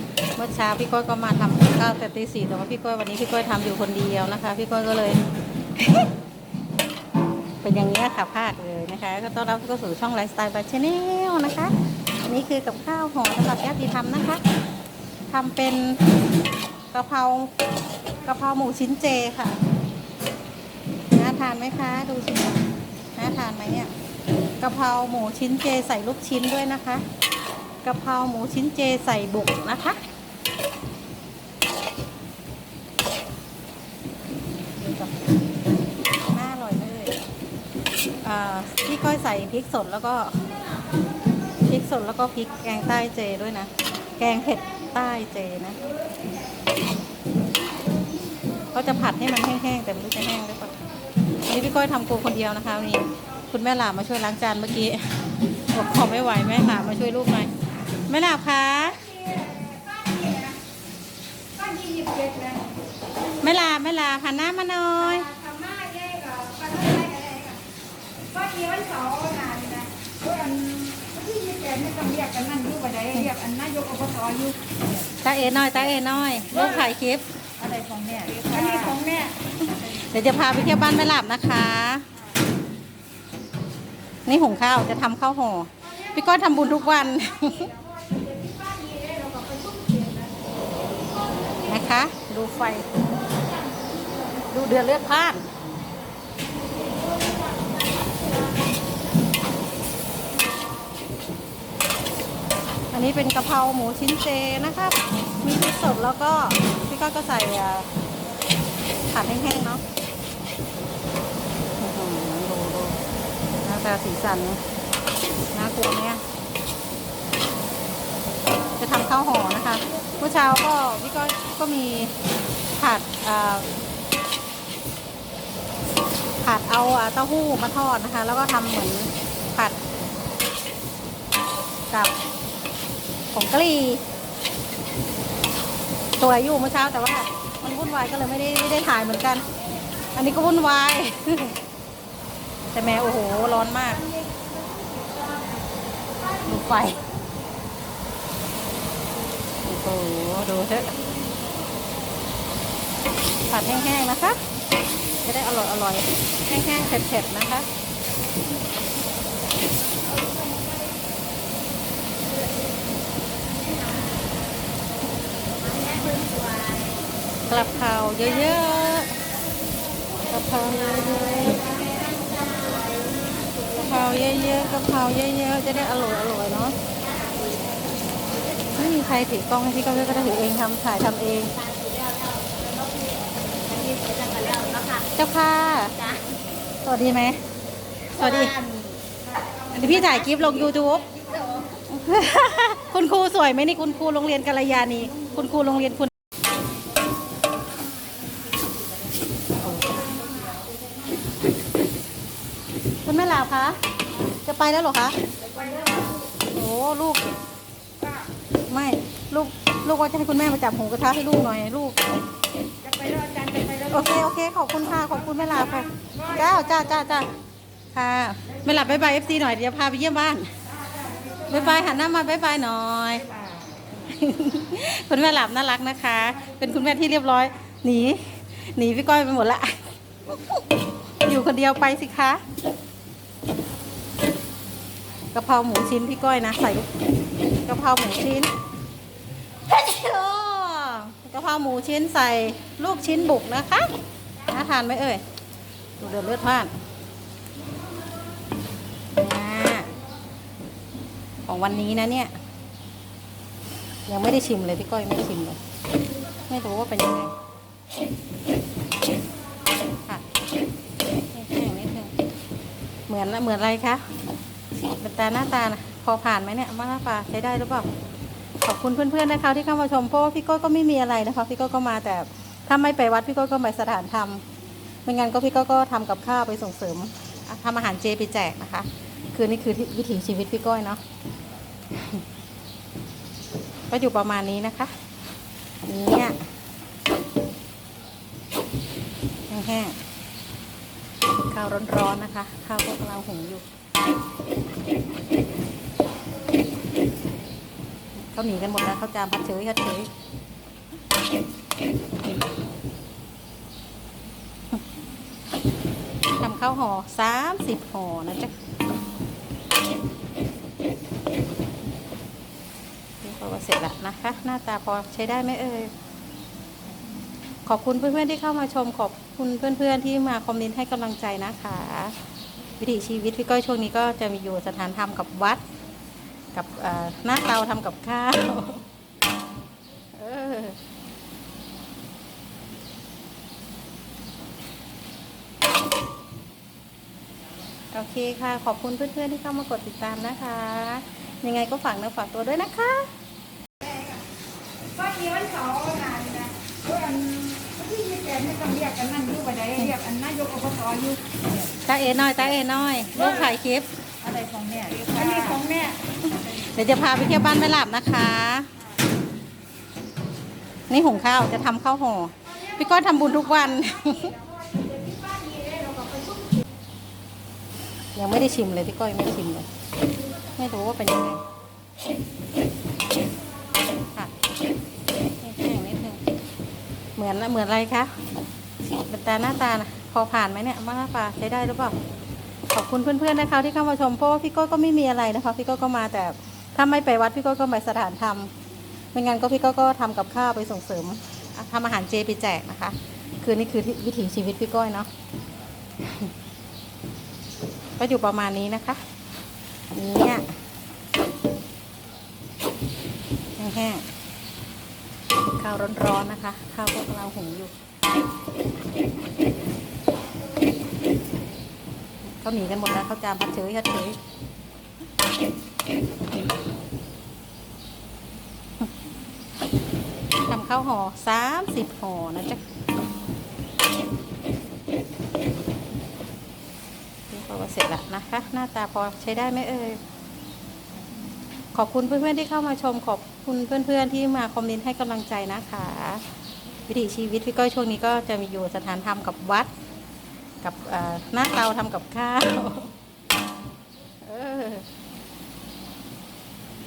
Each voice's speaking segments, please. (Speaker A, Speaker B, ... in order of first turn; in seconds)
Speaker A: 0.3-5.2, 5.8-6.0, 7.6-11.7, 12.3-14.4, 15.3-16.0, 16.9-17.5, 18.2-19.6, 21.1-22.6, 23.1-23.9, 24.6-27.0, 27.8-30.0, 34.8-35.1, 36.3-37.2, 38.2-40.5, 41.6-45.9, 48.7-50.8, 51.4-55.1, 55.7-57.5, 58.1-59.2, 63.4-65.3, 75.1-77.2, 79.9-82.0, 84.2-87.8, 91.6-92.9, 94.5-95.5, 102.9-107.9, 109.1-109.8, 111.8-113.0, 113.6-114.6, 115.5-116.2, 118.8-122.2, 122.8-123.7, 126.4-129.8, 133.3-134.0, 136.2-139.5, 140.1-141.6, 142.7-144.1, 146.4-147.1, 149.6-151.0, 153.5-154.4, 155.2-157.7, 167.5-169.2, 170.2-171.8, 173.6-176.8, 178.7-181.6, 185.1-186.1, 186.8-187.4, 188.1-188.7, 189.7-191.1, 191.7-196.1, 199.6-200.2, 203.0-203.8, 204.4-205.2, 206.4-207.3, 208.7-212.0, 213.8-217.3, 217.9-220.5, 221.4-223.3, 223.9-230.6, 231.2-232.4, 235.3-236.9, 237.6-238.5, 239.7-243.9, 244.5-245.2, 246.0-246.7, 249.1-249.9, 251.5-252.3, 254.1-255.6, 256.5-257.4, 261.3-262.1, 263.1-264.1, 264.9-267.9, 268.6-274.4, 275.0-281.0, 283.9-284.9, 285.9-286.4, 289.5-289.9, 291.5-293.6, 298.3-300.1, 306.4-308.5, 313.2-315.9, 317.6-322.1, 322.8-325.6, 326.5-328.8, 330.1-330.8, 337.9-343.1, 349.7-350.0, 351.8-353.9, 356.6-358.7, 360.9-364.4, 368.1-369.7, 370.5-371.4, 375.4-376.2, 377.2-378.1, 379.0-381.9, 382.7-388.5, 389.1-395.1, 396.0-396.3, 398.0-399.0, 399.9-400.5, 403.6-404.1, 405.6-407.7, 412.3-414.2, 420.4-422.6, 427.3-430.0, 431.7-436.2, 436.9-439.7, 440.6-442.9, 444.2-444.9
Speaker B: 59.1-60.6, 61.5-62.6, 65.3-67.6, 68.3-74.6, 77.6-79.3, 88.1-90.3, 165.6-167.0, 171.1-173.5, 177.2-177.8, 181.6-185.0, 188.5-189.0, 191.3-191.6, 205.5-206.1, 212.8-213.8, 345.0-351.2, 354.2-356.0, 365.4-366.3